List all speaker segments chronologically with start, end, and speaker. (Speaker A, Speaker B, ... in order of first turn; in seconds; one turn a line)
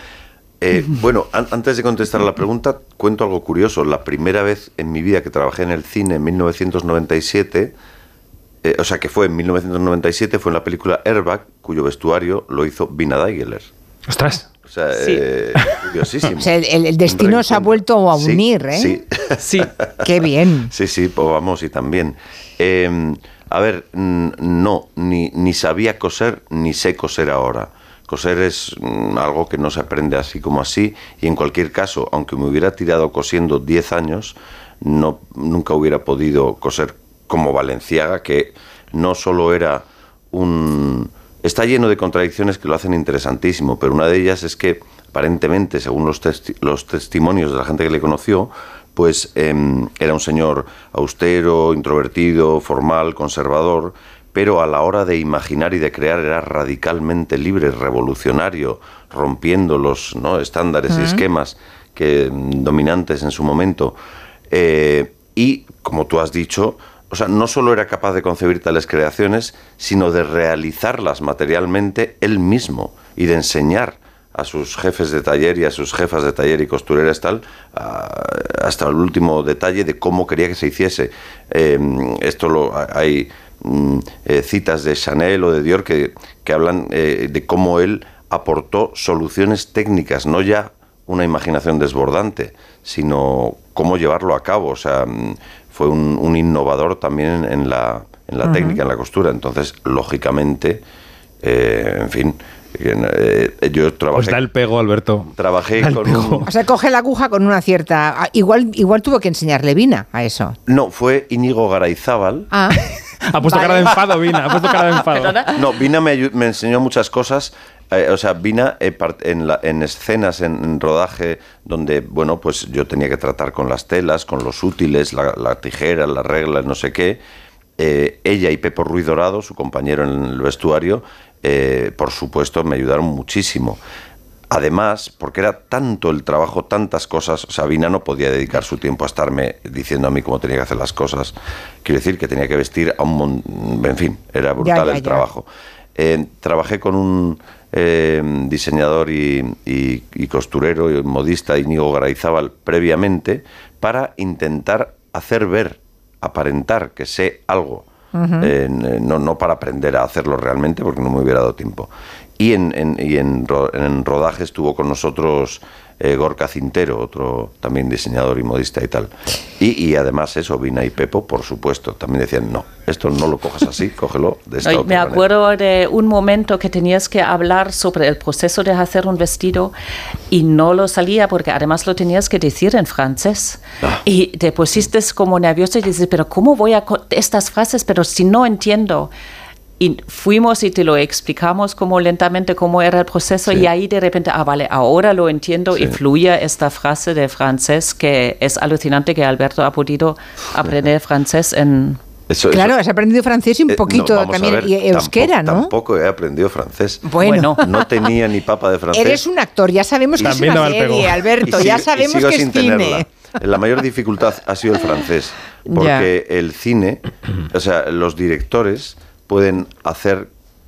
Speaker A: 0.6-7.7
Speaker A: 8.6-13.7
Speaker B: 14.1-14.5
Speaker A: 14.7-16.5
Speaker C: 14.9-15.2
Speaker D: 16.4-19.0
Speaker A: 17.1-19.4
Speaker C: 19.4-19.7
Speaker D: 20.0-20.7
Speaker A: 20.7-64.0
Speaker D: 60.9-61.2
Speaker A: 64.5-100.8
Speaker D: 98.4-98.8
Speaker A: 101.4-104.4
Speaker B: 104.2-106.5
Speaker A: 105.4-106.5
Speaker D: 106.4-110.6
Speaker A: 110.7-112.5
Speaker D: 112.5-112.8
Speaker B: 113.2-115.5
Speaker D: 113.4-114.0
Speaker C: 115.1-115.5
Speaker A: 115.5-127.2
Speaker A: 127.8-133.8
Speaker A: 134.5-157.9
Speaker D: 144.6-145.2
Speaker D: 158.1-158.5
Speaker A: 158.4-175.3
Speaker C: 174.6-179.7
Speaker C: 180.3-189.1
Speaker C: 189.8-202.0
Speaker A: 202.3-202.7
Speaker D: 202.5-205.7
Speaker A: 203.7-209.2
Speaker D: 207.1-207.9
Speaker C: 207.2-207.6
Speaker D: 208.9-213.1
Speaker A: 210.2-210.6
Speaker B: 210.2-211.2
Speaker A: 211.4-220.3
Speaker D: 215.7-216.1